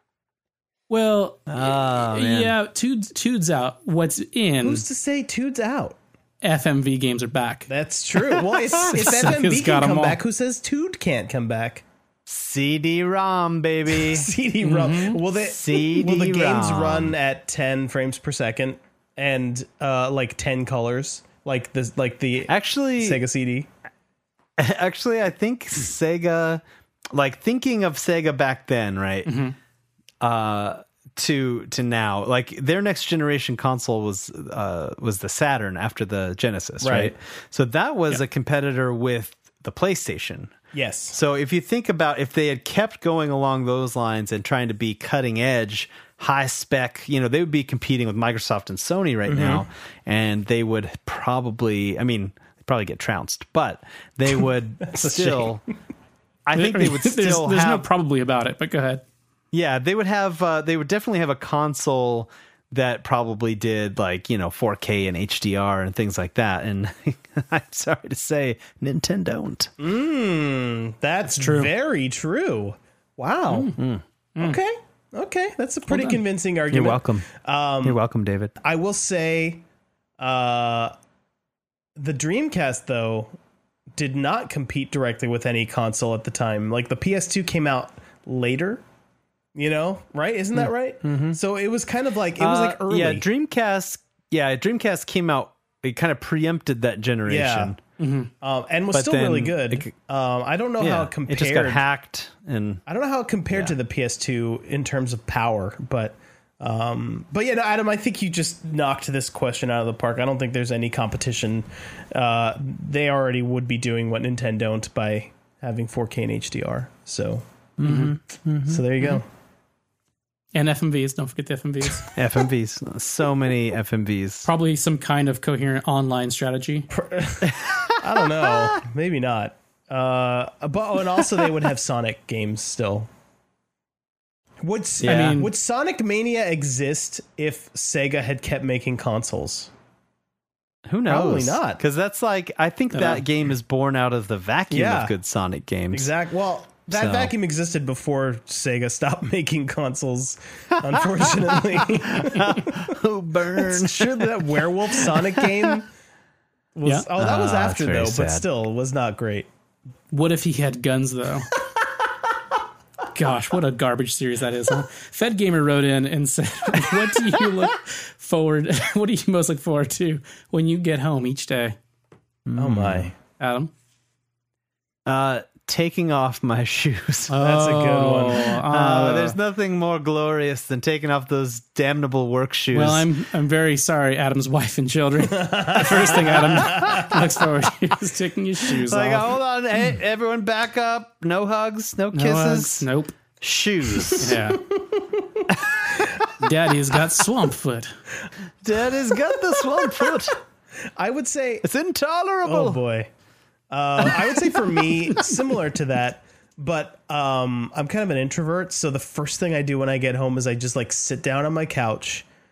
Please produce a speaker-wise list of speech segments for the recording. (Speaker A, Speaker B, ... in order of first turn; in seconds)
Speaker A: 0.9-4.8, 6.4-7.7, 8.9-10.2, 14.6-15.2, 29.2-29.5, 56.5-59.0, 71.3-71.7, 73.5-73.7, 75.9-76.2, 98.0-98.3, 117.8-118.1, 120.5-122.1, 124.4-126.9, 135.0-135.5, 142.9-143.2, 160.1-161.5, 163.1-171.8, 173.4-173.7, 177.3-179.4, 182.7-189.4, 192.1-193.2, 194.1-194.6, 196.4-197.9
Speaker B: 1.5-2.5, 12.3-14.3, 15.4-17.1, 22.5-23.2, 24.6-26.6, 27.1-29.3, 30.2-40.5, 41.1-55.6, 56.5-57.9, 59.5-69.7, 73.8-74.0, 76.7-77.2, 77.8-78.5, 90.5-91.4, 92.4-97.8, 98.9-99.9, 100.8-102.8, 103.5-103.8, 117.8-118.8, 122.1-124.5, 127.5-128.8, 140.9-146.1, 146.9-147.3, 151.7-155.7, 157.2-158.4, 172.4-173.1, 175.1-177.3, 178.7-183.1, 188.9-192.9, 193.4-194.4, 195.6-196.0, 198.6-200.4, 201.6-202.8
Speaker C: 4.6-6.0, 7.7-11.8, 13.9-23.7, 36.8-37.1, 40.7-41.2, 49.3-49.6, 54.9-55.6, 69.8-73.8, 74.4-78.0, 78.6-79.6, 80.2-80.9, 82.0-83.3, 84.0-88.8, 89.5-93.2, 97.2-97.7, 98.4-101.8, 102.9-117.4, 118.7-119.3, 126.9-133.1, 134.6-139.7, 141.1-141.8, 144.7-145.1, 145.9-152.9, 153.6-155.9, 156.7-159.5, 172.6-173.1, 177.4-178.6, 185.3-187.4, 194.7-195.4, 199.1-200.2, 200.9-201.6, 202.4-203.1, 203.7-212.2